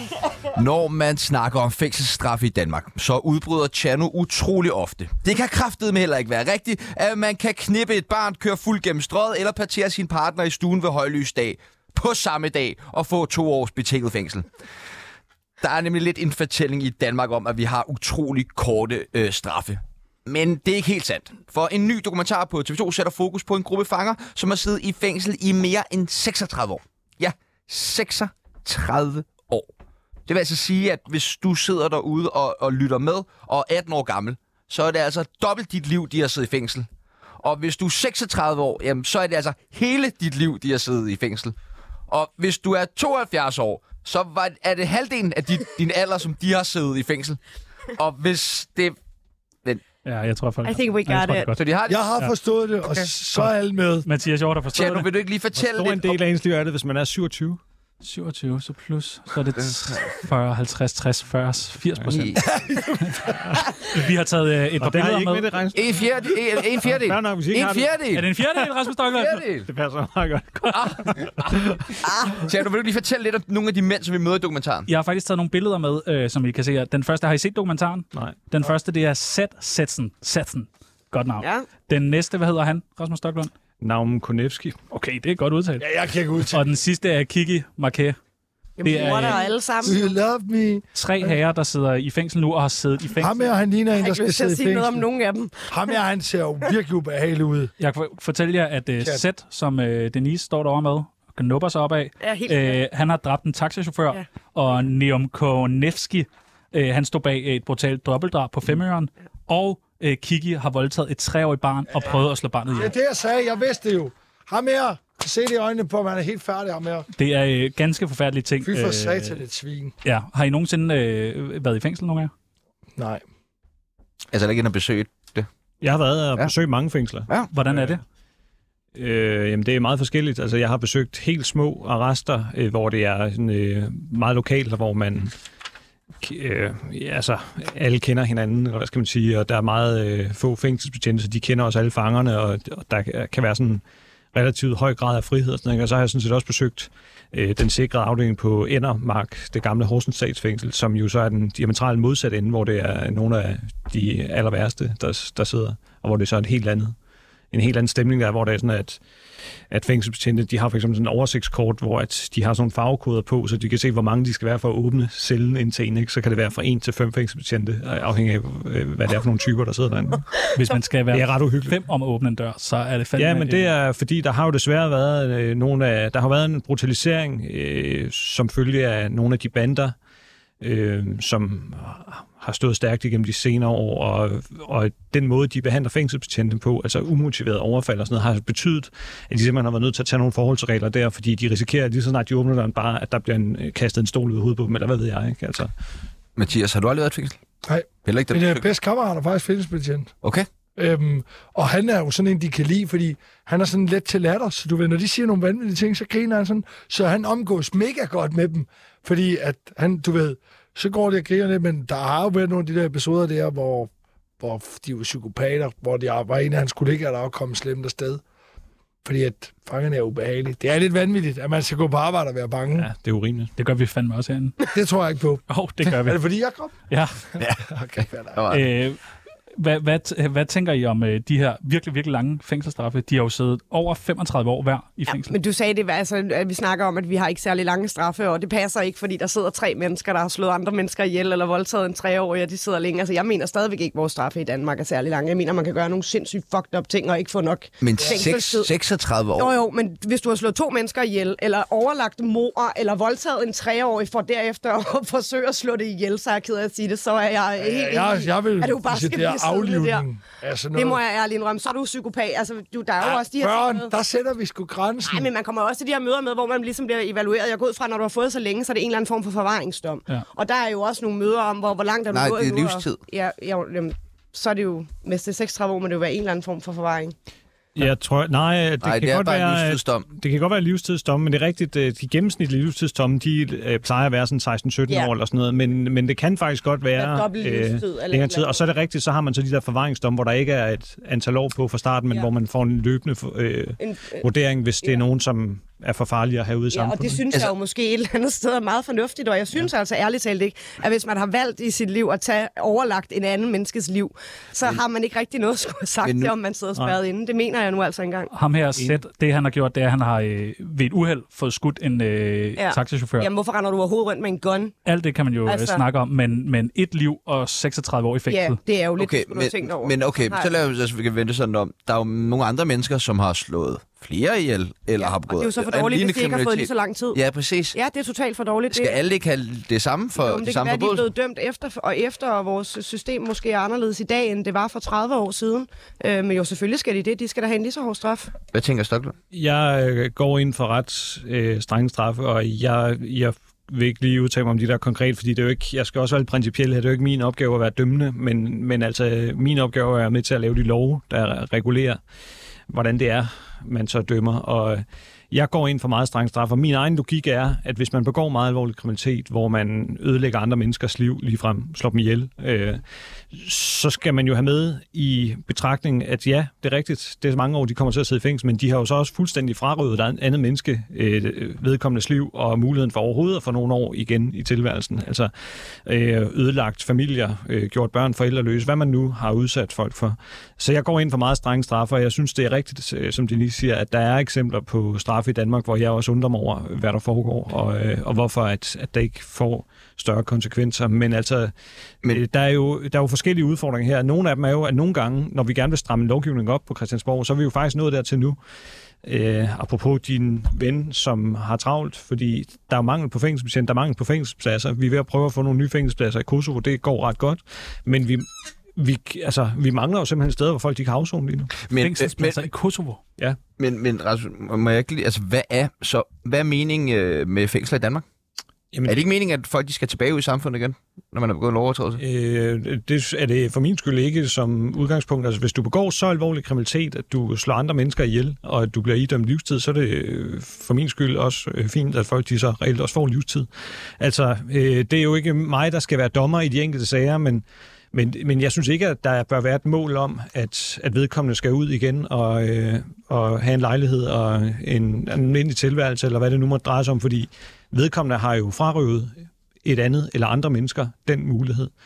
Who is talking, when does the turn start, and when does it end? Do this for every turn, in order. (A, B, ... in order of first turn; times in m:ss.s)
0:00.6-0:14.5 A
0:15.6-0:29.7 A
0:30.3-0:36.9 A
0:37.4-0:41.6 A
0:42.1-0:47.4 A
0:48.0-0:49.0 A
0:50.0-0:51.6 B
0:50.6-0:51.5 C
0:51.5-0:52.1 A
0:51.9-0:54.0 D
0:54.0-0:55.1 B
0:54.7-0:56.2 A
0:55.6-0:57.6 E
0:58.0-1:02.4 B
0:59.6-1:00.0 A
1:02.1-1:02.5 A
1:02.6-1:03.0 D
1:03.0-1:03.3 B
1:03.3-1:03.7 E
1:03.8-1:05.6 B
1:04.8-1:08.0 E
1:05.7-1:08.3 A
1:08.1-1:09.4 B
1:09.1-1:09.7 A
1:09.7-1:11.9 E
1:10.7-1:14.9 A
1:14.9-1:23.5 B
1:18.1-1:18.5 E
1:21.4-1:21.7 C
1:23.8-1:24.8 E
1:24.9-1:25.9 B
1:25.8-1:26.6 D
1:26.5-1:28.2 B
1:28.8-1:30.1 C
1:28.8-1:29.6 B
1:29.8-1:31.4 D
1:31.0-1:33.5 B
1:33.2-1:35.0 D
1:34.0-1:35.9 C
1:35.7-1:37.7 D
1:37.8-1:52.9 B
1:42.2-1:42.8 C
1:52.7-1:57.1 D
1:57.2-1:59.4 B
1:58.6-1:59.9 D
2:00.0-2:02.3 B
2:03.0-2:03.2 D
2:04.3-2:05.5 A
2:05.8-2:08.0 E
2:07.5-2:08.0 B
2:09.0-2:15.3 E
2:16.2-2:37.0 E
2:37.5-2:39.0 E
2:39.7-2:50.4 E
2:50.6-2:53.7 B
2:51.1-2:51.8 E
2:53.2-3:00.0 E
3:00.6-3:15.7 E
3:16.4-3:17.4 A
3:17.6-3:20.1 D
3:18.0-3:18.6 A
3:20.2-3:20.5 A
3:20.8-3:38.2 D
3:39.0-3:42.9 D
3:42.7-3:43.5 E
3:43.6-3:44.7 B
3:44.7-3:46.7 D
3:45.5-3:46.2 B
3:46.9-3:47.1 B
3:47.4-3:48.7 A
3:47.5-3:48.4 D
3:48.5-3:49.0 B
3:49.6-3:55.3 B
3:55.1-4:08.7 C
4:07.8-4:09.6 A
4:09.4-4:20.0 C
4:17.6-4:21.0 D
4:20.7-4:23.9 C
4:23.0-4:25.3 D
4:25.1-4:37.1 C
4:32.1-4:33.0 A
4:37.7-4:57.5 E
4:38.8-4:40.0 A
4:46.9-4:48.6 C
4:53.8-4:54.3 C
4:56.7-5:08.3 C
5:06.0-5:06.3 A
5:08.3-5:13.3 B
5:08.8-5:09.0 E
5:12.6-5:14.7 C
5:14.9-5:18.6 B
5:15.4-5:15.8 C
5:18.3-5:20.5 C
5:19.0-5:27.8 A
5:25.0-5:27.2 C
5:27.7-5:29.0 C
5:28.7-5:31.1 A
5:30.2-5:38.3 C
5:38.5-5:39.1 A
5:39.3-5:52.0 E
5:52.7-6:15.3 E
6:15.8-6:31.5 E
6:32.1-6:38.4 E
6:39.0-6:51.5 E
6:51.6-6:52.4 A
6:51.8-6:53.0 B
6:53.6-6:58.0 A
6:58.7-6:59.0 E
6:58.9-7:02.0 A
7:02.0-7:13.5 E
7:14.0-7:29.1 E
7:29.6-7:31.7 E